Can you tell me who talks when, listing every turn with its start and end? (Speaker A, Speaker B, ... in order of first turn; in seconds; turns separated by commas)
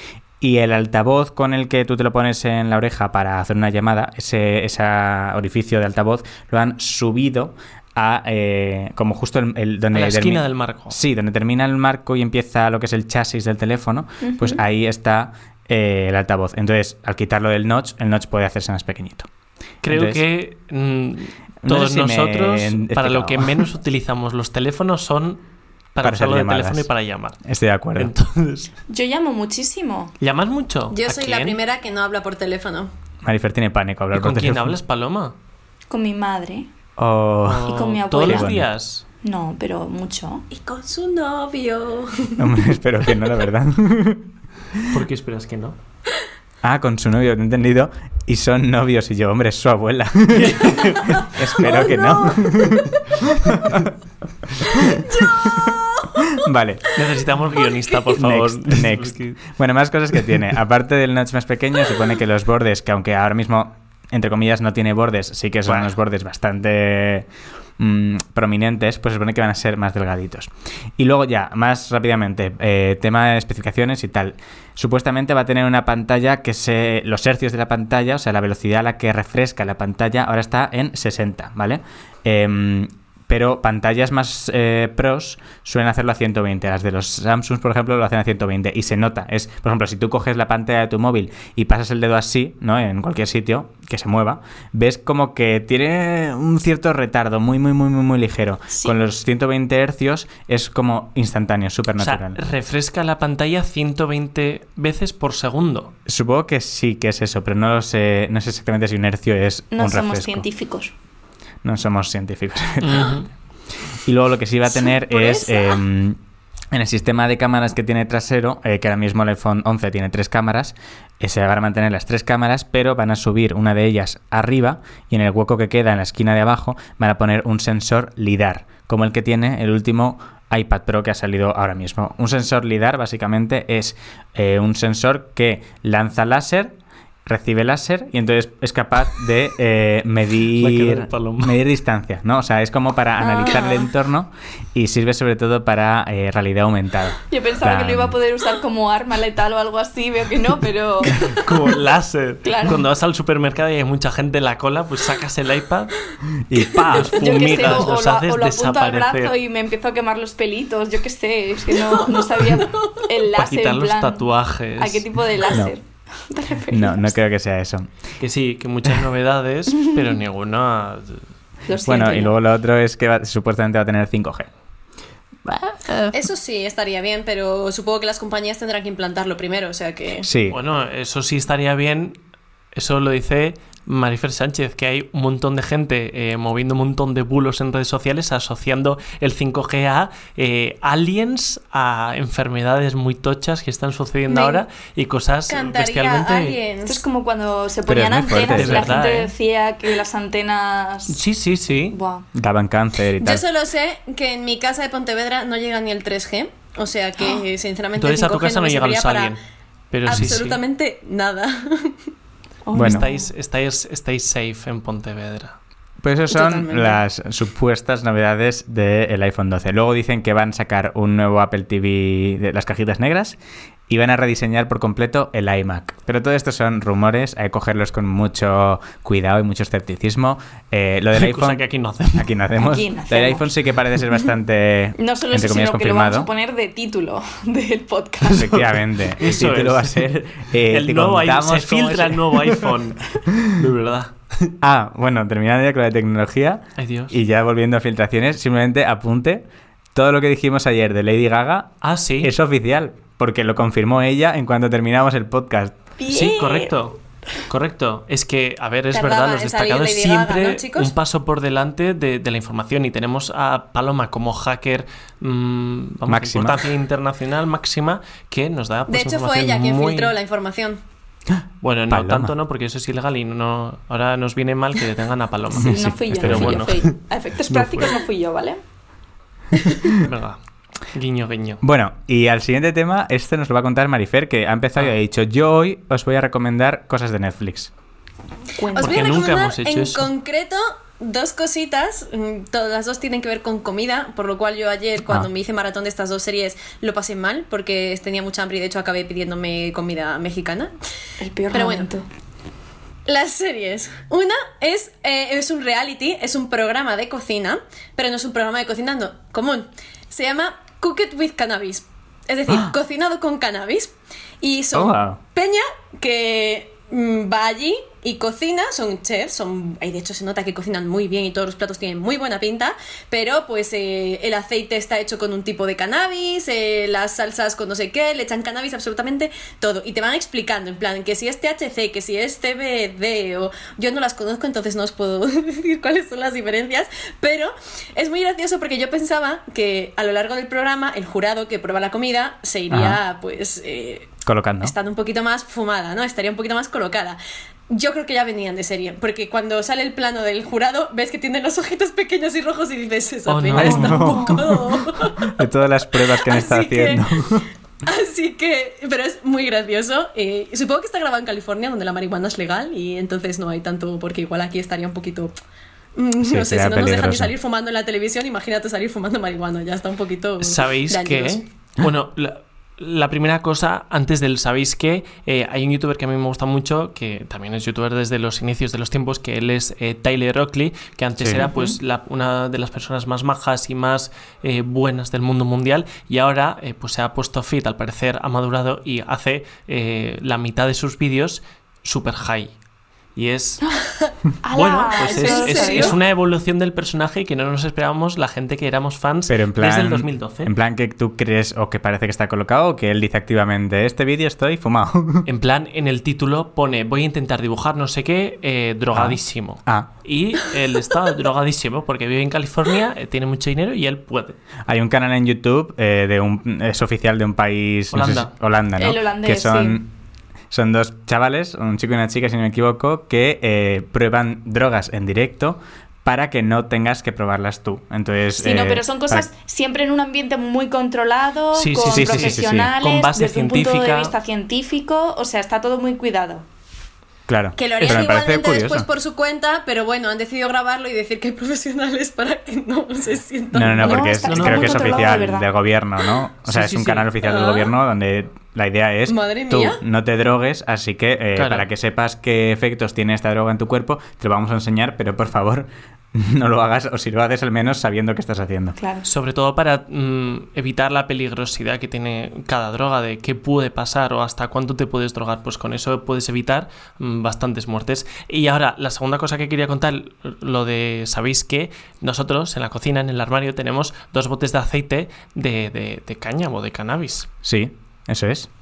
Speaker A: 0.4-19.3, Speaker B: 9.9-11.0, Speaker C: 14.2-14.6, Speaker B: 19.8-25.4, Speaker A: 19.9-20.2, Speaker A: 21.6-23.6, Speaker B: 25.9-27.4, Speaker A: 26.0-26.9, Speaker A: 27.4-28.1, Speaker B: 27.9-28.7, Speaker C: 28.9-30.1, Speaker B: 30.2-31.6, Speaker D: 30.9-32.9, Speaker A: 33.2-34.8, Speaker B: 34.1-35.3, Speaker C: 35.9-36.7, Speaker A: 37.0-38.6, Speaker B: 37.4-39.0, Speaker C: 37.6-38.5, Speaker C: 39.2-40.4, Speaker D: 40.5-42.5, Speaker A: 42.4-44.3, Speaker B: 44.9-45.8, Speaker A: 46.6-53.9, Speaker B: 50.3-51.8, Speaker D: 51.7-52.5, Speaker A: 54.6-55.7, Speaker D: 54.9-56.3, Speaker A: 56.3-56.8, Speaker B: 56.9-59.4, Speaker A: 58.2-67.3, Speaker A: 67.8-102.4, Speaker B: 102.0-105.9, Speaker A: 106.1-110.5, Speaker C: 109.7-110.9, Speaker A: 111.6-113.1, Speaker B: 112.8-113.3, Speaker A: 114.0-116.2, Speaker C: 114.7-115.8, Speaker A: 116.7-136.7, Speaker A: 137.2-148.1, Speaker B: 140.5-141.6, Speaker C: 143.2-143.9, Speaker C: 147.3-151.2, Speaker B: 151.3-155.9, Speaker C: 152.4-152.8, Speaker A: 156.5-157.8, Speaker B: 156.6-159.3, Speaker C: 156.9-167.2, Speaker D: 161.7-162.9, Speaker B: 163.3-165.3, Speaker A: 166.7-167.9, Speaker B: 168.2-171.2, Speaker C: 169.8-170.1, Speaker C: 171.7-172.4, Speaker A: 171.8-174.5, Speaker A: 175.5-175.8, Speaker D: 176.1-180.3, Speaker A: 180.2-180.6, Speaker B: 180.5-182.2, Speaker B: 182.7-196.6, Speaker D: 194.3-194.6, Speaker D: 195.5-197.0, Speaker C: 196.8-201.2, Speaker A: 197.9-199.0, Speaker B: 198.4-199.3, Speaker B: 201.1-201.9, Speaker C: 201.9-202.2, Speaker A: 202.3-203.4, Speaker D: 203.2-209.3, Speaker B: 207.9-209.4, Speaker B: 209.9-210.6, Speaker D: 210.1-211.9, Speaker A: 210.1-210.4, Speaker C: 212.7-213.3, Speaker A: 212.7-213.0, Speaker B: 212.8-215.6, Speaker A: 216.0-223.4, Speaker D: 216.3-217.0, Speaker A: 223.9-231.6, Speaker B: 231.1-232.3, Speaker A: 232.1-236.3, Speaker C: 232.6-233.5, Speaker C: 235.0-238.7, Speaker B: 238.3-240.0, Speaker A: 238.3-242.6, Speaker B: 240.7-244.5, Speaker A: 244.6-255.8, Speaker B: 246.8-247.2, Speaker B: 251.8-252.3, Speaker C: 256.0-256.7, Speaker B: 256.1-256.9, Speaker B: 257.5-270.1, Speaker D: 258.9-260.9, Speaker A: 266.1-266.6, Speaker D: 268.9-270.8, Speaker B: 271.6-276.9, Speaker A: 271.9-272.3, Speaker C: 275.5-278.6, Speaker A: 275.6-276.6, Speaker B: 277.5-278.0, Speaker B: 280.0-280.4, Speaker B: 280.9-281.6, Speaker A: 281.6-287.7, Speaker C: 288.6-289.1, Speaker D: 288.7-300.7, Speaker B: 288.8-290.1, Speaker C: 301.2-302.1, Speaker D: 301.5-301.9, Speaker D: 303.1-347.2, Speaker A: 312.5-312.7, Speaker A: 314.7-315.2, Speaker A: 342.7-343.0, Speaker A: 344.2-344.7, Speaker D: 347.7-355.3, Speaker B: 353.2-353.9, Speaker A: 353.5-354.4, Speaker C: 353.8-354.5, Speaker A: 355.2-357.4, Speaker D: 356.0-357.0, Speaker D: 357.9-365.3, Speaker D: 366.0-371.4, Speaker A: 366.2-367.3, Speaker B: 370.4-392.5, Speaker A: 381.2-381.4, Speaker C: 381.4-381.8, Speaker B: 393.1-393.6, Speaker C: 394.4-396.0, Speaker B: 394.5-400.5, Speaker D: 395.0-395.9, Speaker A: 399.3-405.3, Speaker B: 405.2-414.4, Speaker A: 408.9-409.9, Speaker A: 414.7-419.9, Speaker B: 417.9-418.3, Speaker C: 418.8-419.8, Speaker A: 420.5-429.3, Speaker C: 428.4-436.4, Speaker B: 431.5-434.1, Speaker A: 431.9-432.7, Speaker A: 437.3-438.9, Speaker D: 437.6-445.2, Speaker A: 443.5-458.8, Speaker C: 443.8-445.5, Speaker B: 444.2-444.9, Speaker B: 446.4-447.1, Speaker D: 447.2-447.7, Speaker D: 449.1-449.8, Speaker B: 451.3-451.7, Speaker C: 458.8-459.1, Speaker B: 459.1-477.3, Speaker A: 477.4-478.5